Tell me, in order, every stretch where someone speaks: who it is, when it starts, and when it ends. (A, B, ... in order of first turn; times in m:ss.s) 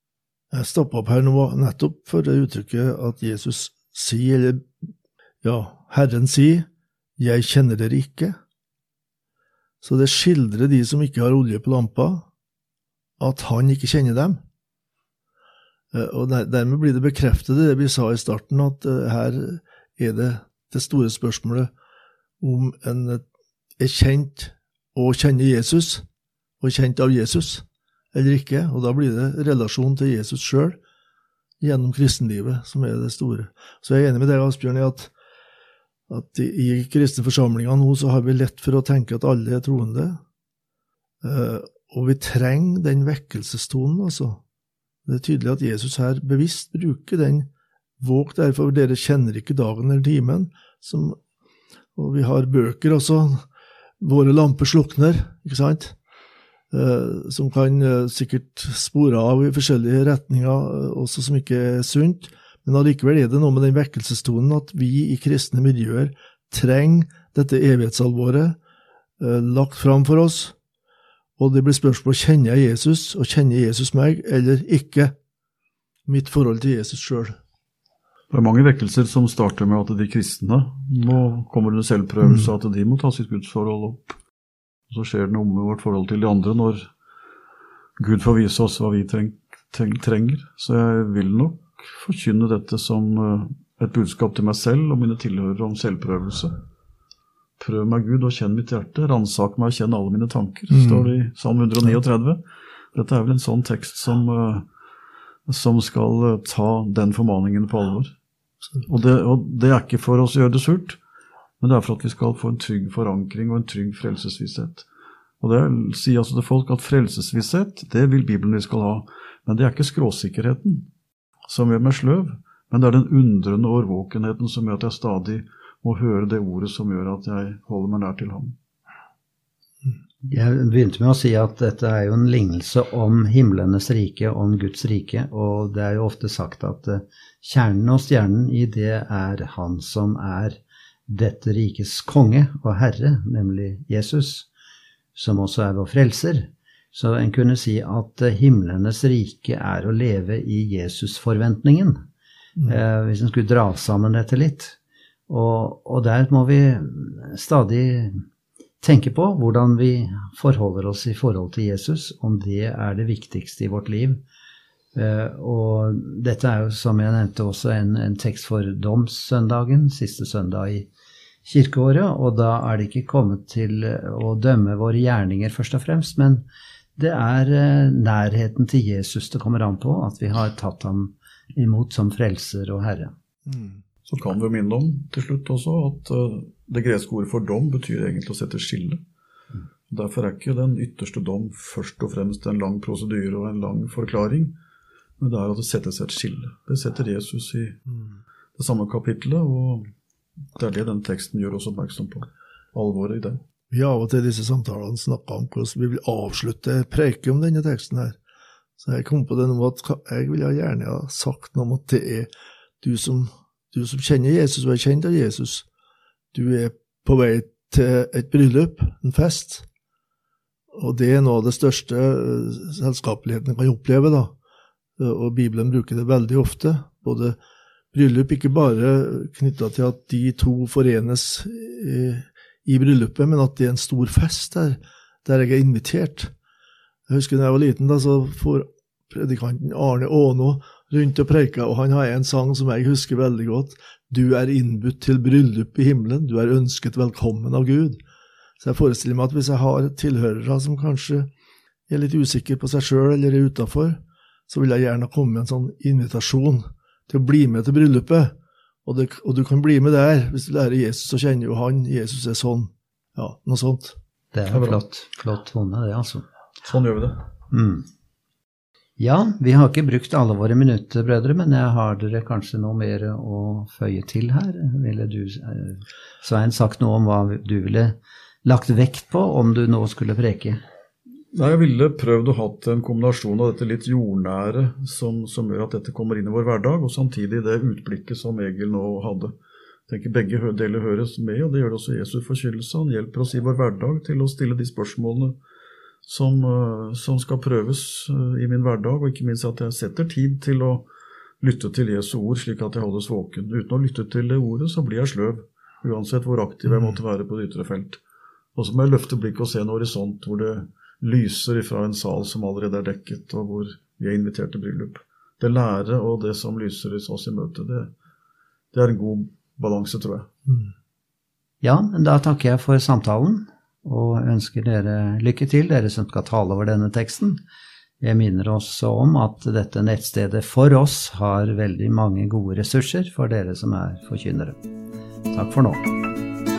0:00.5-0:04.7 A
0:05.4-0:06.7 A
0:07.2-0:08.4 A
0:09.8-0:12.3 A
0:13.2-0:14.4 A
0:15.9-0:21.7 A
0:22.4-0:23.2 A
0:23.8-0:26.0 A
0:26.6-0:30.8 A
0:31.6-0:35.1 A
0:36.1-0:40.2 A
0:41.2-0:44.4 A
0:45.0-0:47.5 A
0:48.0-0:51.2 A
0:52.0-0:53.4 A
0:54.0-0:56.0 A
0:56.7-1:08.6 A
1:09.2-1:10.5 A
1:11.4-1:15.1 A
1:16.0-1:17.4 A
1:18.3-1:24.2 B
1:22.2-1:22.5 A
1:24.9-1:26.9 B
1:28.0-1:36.6 B
1:37.6-1:42.4 B
1:40.7-1:41.1 A
1:42.9-1:44.6 B
1:45.5-1:48.1 B
1:48.8-1:51.0 B
1:51.6-1:54.8 B
1:55.4-2:00.9 B
2:01.5-2:08.5 B
2:10.2-2:24.5 C
2:25.1-2:32.0 C
2:32.6-2:34.8 C
2:35.3-2:38.2 C
2:38.8-2:44.2 C
2:44.9-2:50.9 C
2:51.4-3:03.1 C
3:03.4-3:03.8 A
3:04.1-3:09.0 B
3:09.9-3:14.6 B
3:15.2-3:17.8 B
3:18.6-3:19.8 B
3:20.6-3:23.4 B
3:23.7-3:28.2 A
3:28.8-3:32.3 A
3:32.8-3:35.6 A
3:36.3-3:39.6 A
3:40.7-3:44.3 A
3:45.0-3:47.4 A
3:47.9-3:56.3 A
3:57.1-4:08.0 A
4:08.6-4:11.3 A
4:11.9-4:18.3 A
4:18.8-4:24.0 A
4:24.3-4:26.2 C
4:24.5-4:24.8 B
4:26.6-4:27.2 B
4:27.5-4:27.8 C
4:29.0-4:40.6 C
4:41.3-4:49.3 B
4:49.9-4:55.4 B
4:56.0-5:00.9 B
5:01.4-5:08.0 B
5:08.5-5:17.9 B
5:18.7-5:20.3 B
5:21.6-5:27.4 C
5:28.0-5:34.6 C
5:35.3-5:35.9 C